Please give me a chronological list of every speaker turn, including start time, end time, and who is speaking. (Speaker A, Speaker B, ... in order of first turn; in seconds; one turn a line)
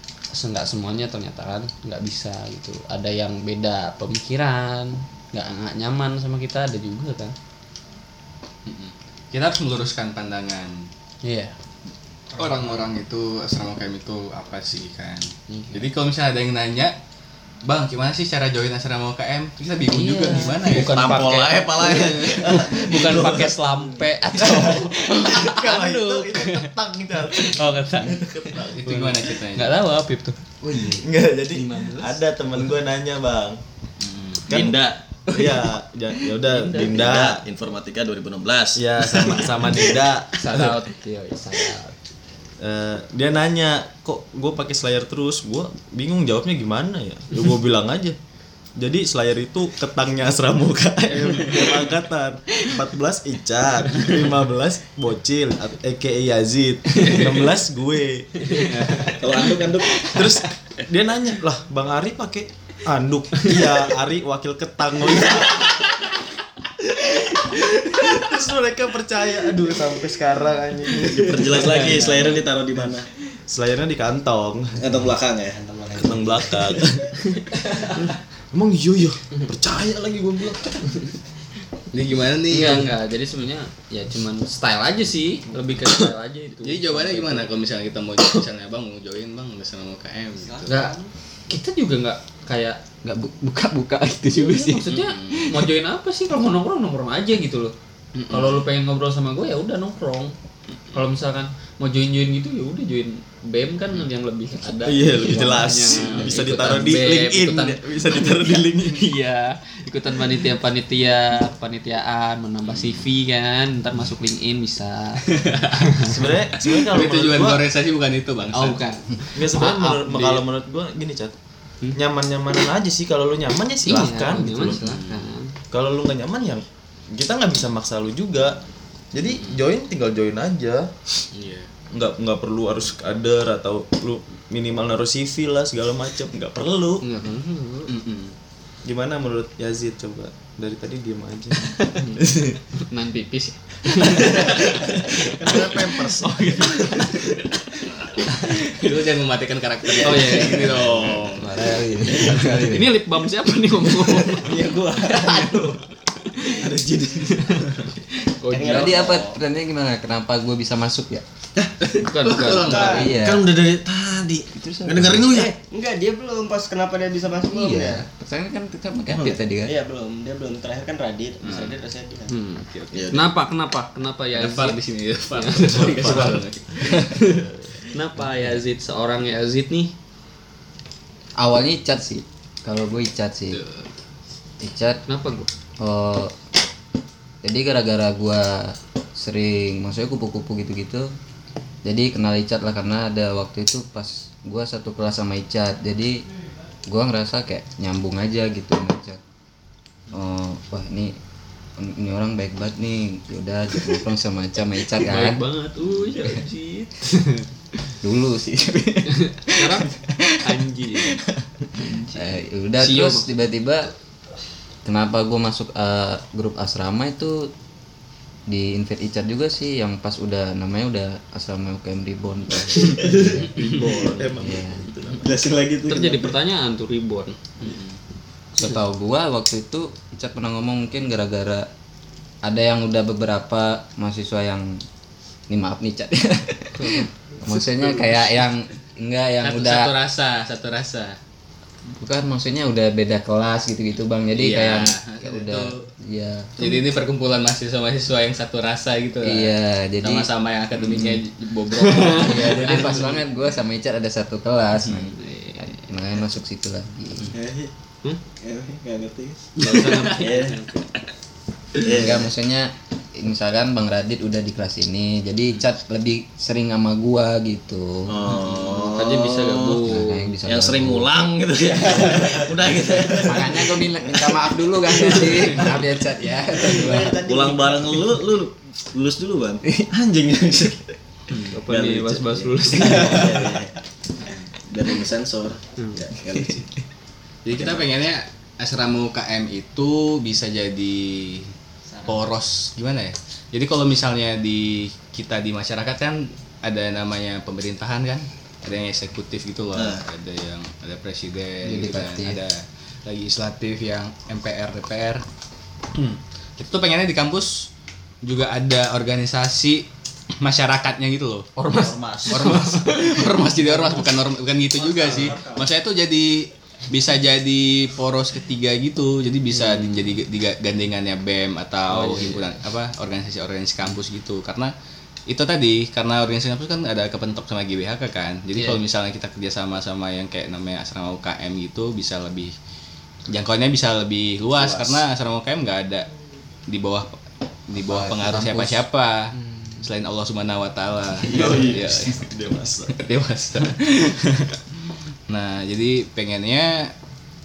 Speaker A: 0.3-7.3
Speaker B: 8.7-10.9
Speaker A: 11.2-11.5
Speaker B: 12.3-16.9
Speaker A: 15.5-15.9
Speaker B: 17.6-21.0
Speaker A: 19.9-30.4
Speaker C: 20.7-23.5
Speaker D: 22.4-23.4
Speaker D: 24.3-28.8
Speaker B: 28.5-29.8
Speaker E: 30.6-32.0
Speaker D: 30.6-33.6
Speaker A: 31.6-32.0
Speaker B: 34.0-34.5
Speaker D: 34.5-37.4
Speaker C: 34.5-34.9
Speaker A: 35.4-35.7
Speaker A: 36.3-37.0
Speaker C: 36.6-39.6
Speaker D: 38.8-40.8
Speaker A: 39.0-42.0
Speaker D: 42.6-48.2
Speaker D: 48.8-58.5
Speaker A: 51.2-51.8
Speaker A: 57.0-57.4
Speaker A: 58.4-60.5
Speaker C: 59.1-60.0
Speaker D: 60.0-65.9
Speaker D: 66.8-72.3
Speaker C: 71.2-73.1
Speaker D: 73.5-74.9
Speaker C: 74.8-75.6
Speaker F: 75.5-76.8
Speaker D: 76.0-81.1
Speaker B: 81.9-82.9
Speaker A: 82.5-87.5
Speaker B: 86.6-90.7
Speaker F: 90.3-91.1
Speaker A: 90.7-91.0
Speaker A: 91.5-92.8
Speaker E: 93.0-94.8
Speaker A: 93.7-97.7
Speaker B: 94.8-95.6
Speaker B: 98.1-98.6
Speaker A: 98.3-100.3
Speaker A: 100.9-116.1
Speaker D: 104.8-109.1
Speaker C: 105.3-106.1
Speaker B: 106.1-106.4
Speaker B: 112.7-113.1
Speaker B: 115.3-116.0
Speaker D: 116.0-117.6
Speaker B: 116.5-118.8
Speaker A: 118.5-120.4
Speaker D: 119.3-121.3
Speaker D: 121.9-124.8
Speaker A: 123.8-125.5
Speaker B: 124.7-125.3
Speaker D: 125.7-128.6
Speaker D: 129.1-130.9
Speaker B: 131.3-131.7
Speaker D: 131.9-137.0
Speaker A: 137.0-137.9
Speaker B: 137.9-138.3
Speaker D: 138.8-142.6
Speaker A: 141.6-147.3
Speaker D: 145.1-146.4
Speaker C: 145.3-145.7
Speaker B: 148.4-151.5
Speaker A: 150.0-151.0
Speaker E: 151.3-152.9
Speaker A: 152.0-154.6
Speaker C: 154.4-155.4
Speaker F: 154.5-155.5
Speaker A: 155.1-155.6
Speaker A: 156.3-156.7
Speaker C: 156.4-157.6
Speaker A: 158.3-159.1
Speaker C: 158.5-159.3
Speaker F: 158.6-159.3
Speaker E: 158.6-161.2
Speaker B: 161.9-163.1
Speaker A: 161.9-163.2
Speaker C: 162.5-165.5
Speaker E: 162.7-163.4
Speaker E: 164.6-165.5
Speaker F: 165.3-168.1
Speaker E: 167.5-169.7
Speaker C: 169.1-169.4
Speaker F: 169.6-172.3
Speaker B: 171.4-171.7
Speaker A: 172.3-174.8
Speaker B: 172.7-172.9
Speaker C: 172.9-173.3
Speaker B: 174.3-177.1
Speaker A: 175.3-179.9
Speaker D: 175.7-176.4
Speaker E: 181.4-183.6
Speaker B: 183.5-183.8
Speaker E: 184.6-185.0
Speaker A: 185.1-185.5
Speaker E: 185.8-186.3
Speaker E: 187.4-191.1
Speaker E: 191.8-196.2
Speaker E: 196.9-199.2
Speaker E: 200.1-201.2
Speaker E: 201.8-205.4
Speaker A: 205.0-207.4
Speaker B: 205.8-206.2
Speaker E: 208.0-209.8
Speaker A: 209.1-211.2
Speaker E: 211.8-213.9
Speaker A: 212.8-213.3
Speaker E: 214.8-217.5
Speaker E: 218.5-223.7
Speaker C: 223.0-226.3
Speaker A: 223.6-223.9
Speaker D: 223.8-225.2
Speaker E: 224.4-224.9
Speaker A: 225.8-227.8
Speaker B: 227.6-228.0
Speaker E: 228.6-231.7
Speaker E: 232.4-234.8
Speaker E: 235.5-239.9
Speaker A: 236.8-238.2
Speaker B: 239.4-241.2
Speaker E: 242.0-246.7
Speaker B: 244.3-245.8
Speaker B: 246.6-253.2
Speaker E: 249.2-251.2
Speaker A: 251.7-253.1
Speaker E: 252.2-257.3
Speaker B: 254.8-255.1
Speaker A: 255.1-255.9
Speaker C: 257.3-257.7
Speaker C: 258.3-260.6
Speaker A: 259.6-260.9
Speaker B: 259.9-260.2
Speaker C: 261.8-262.3
Speaker E: 261.8-268.3
Speaker C: 268.1-269.9
Speaker B: 268.3-268.9
Speaker A: 268.9-270.3
Speaker E: 269.8-271.1
Speaker C: 270.4-273.9
Speaker E: 273.2-277.2
Speaker C: 276.8-280.9
Speaker F: 277.1-277.4
Speaker B: 281.3-281.6
Speaker A: 281.5-283.5
Speaker C: 281.5-286.7
Speaker B: 287.4-291.5
Speaker C: 287.5-287.9
Speaker F: 291.9-292.3
Speaker B: 292.1-305.2
Speaker C: 299.7-300.0
Speaker E: 301.6-302.4
Speaker B: 305.9-307.7
Speaker B: 308.2-309.8
Speaker B: 310.4-311.5
Speaker A: 311.6-314.1
Speaker D: 311.7-312.5
Speaker B: 312.3-324.7
Speaker C: 314.8-315.7
Speaker A: 319.5-320.2
Speaker A: 321.9-322.5
Speaker B: 325.3-332.5
Speaker B: 333.3-336.1
Speaker C: 334.5-335.0
Speaker B: 336.7-342.2
Speaker E: 337.8-338.7
Speaker A: 338.2-338.7
Speaker A: 339.4-339.8
Speaker C: 341.2-342.9
Speaker D: 341.6-342.9
Speaker B: 342.9-344.6
Speaker B: 345.3-346.9